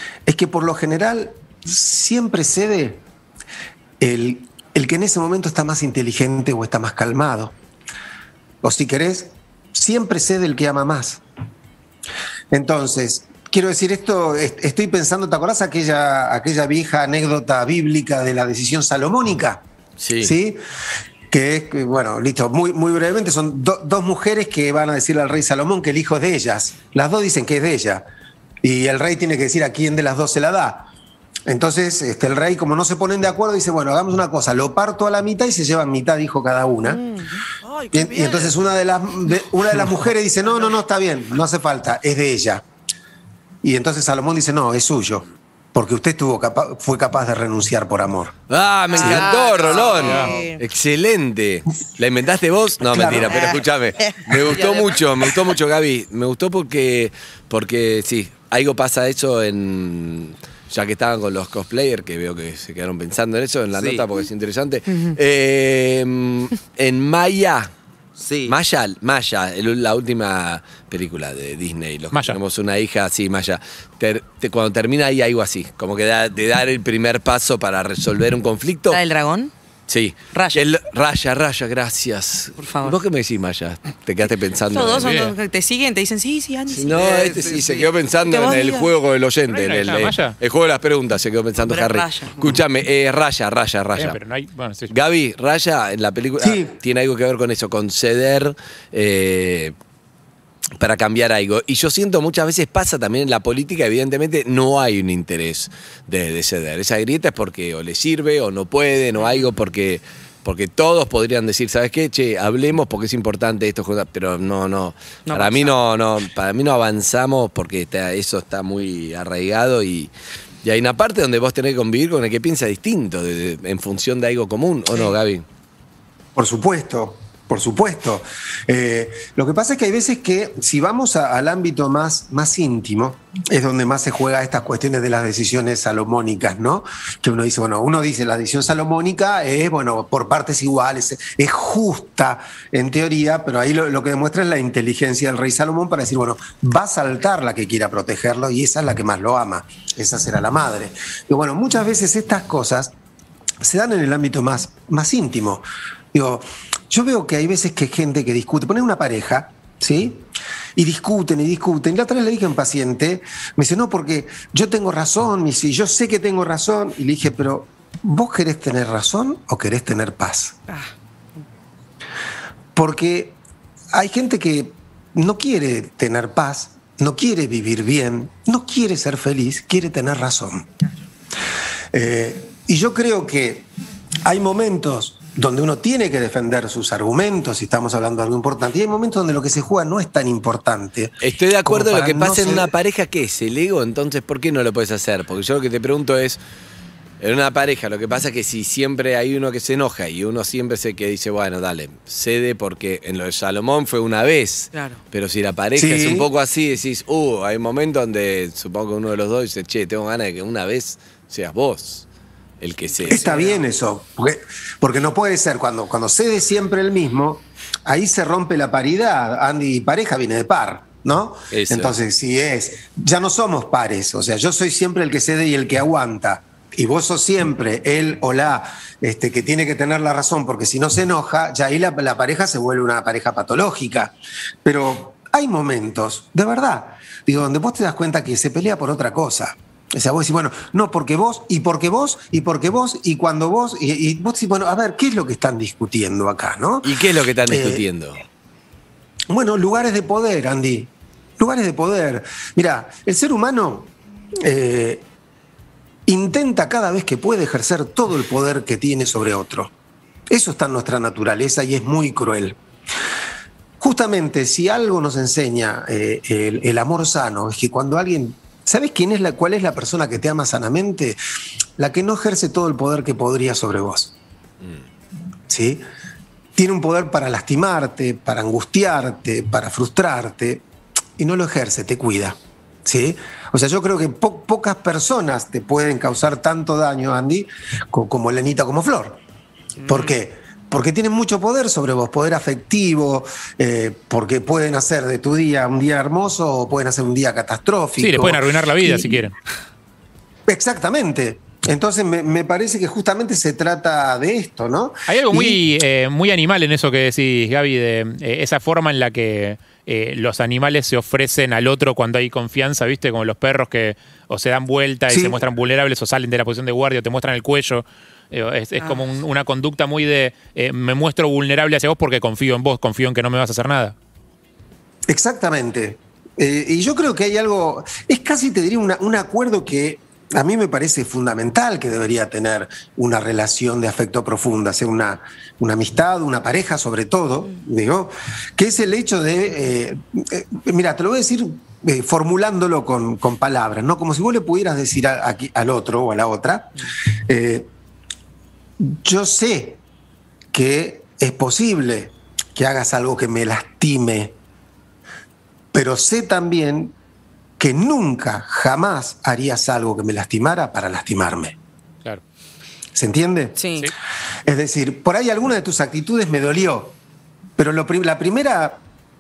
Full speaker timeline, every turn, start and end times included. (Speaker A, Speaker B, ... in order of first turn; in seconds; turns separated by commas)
Speaker A: 0.3-3.0, Speaker A: 4.0-7.5, Speaker A: 8.6-11.2, Speaker A: 12.5-19.6, Speaker B: 20.0-20.3, Speaker A: 20.2-20.6, Speaker A: 21.3-28.1, Speaker A: 28.6-30.9, Speaker A: 31.5-37.0, Speaker C: 36.8-38.5, Speaker A: 37.9-42.6, Speaker A: 43.6-48.3, Speaker B: 48.5-67.7, Speaker D: 48.9-50.5, Speaker E: 50.0-50.3, Speaker C: 50.1-50.6, Speaker A: 52.8-53.6, Speaker D: 54.3-55.3, Speaker D: 63.8-64.1, Speaker D: 68.2-68.5, Speaker B: 68.5-79.0, Speaker E: 72.1-72.4, Speaker C: 78.9-79.5, Speaker B: 79.9-85.1, Speaker C: 80.3-80.7, Speaker C: 82.6-83.0, Speaker C: 84.7-87.6, Speaker E: 85.0-85.3, Speaker B: 86.7-94.2, Speaker D: 86.9-87.9, Speaker C: 88.2-88.9, Speaker E: 89.5-90.4, Speaker C: 91.6-92.6, Speaker E: 94.0-94.9, Speaker B: 94.9-99.8, Speaker A: 96.4-96.8, Speaker B: 100.8-120.1, Speaker C: 109.2-109.5, Speaker C: 115.3-115.8, Speaker B: 120.6-125.4, Speaker A: 126.4-152.9, Speaker A: 153.6-170.6, Speaker A: 172.8-173.4, Speaker A: 173.9-180.7, Speaker A: 181.9-183.7, Speaker A: 184.2-192.7, Speaker B: 191.2-196.4, Speaker B: 197.2-212.1, Speaker C: 204.7-205.0, Speaker A: 205.8-206.3, Speaker B: 212.6-213.4, Speaker C: 213.0-213.6, Speaker A: 213.1-247.9, Speaker B: 221.5-221.9, Speaker B: 246.8-248.2, Speaker A: 249.3-255.1, Speaker A: 256.1-259.7, Speaker A: 260.3-262.6, Speaker A: 263.8-271.2, Speaker A: 271.8-274.1, Speaker A: 275.5-275.9, Speaker A: 276.6-280.6, Speaker A: 281.2-289.2, Speaker C: 289.8-290.1, Speaker A: 289.9-299.3, Speaker E: 298.0-299.3, Speaker A: 300.5-305.6, Speaker E: 305.1-323.9, Speaker A: 315.1-315.4, Speaker C: 318.8-319.1, Speaker A: 325.1-347.7, Speaker A: 348.8-349.8, Speaker A: 350.5-354.4, Speaker A: 355.7-356.9, Speaker A: 357.6-361.6, Speaker A: 362.9-363.6, Speaker C: 363.6-363.9, Speaker A: 364.5-367.0, Speaker A: 367.6-368.8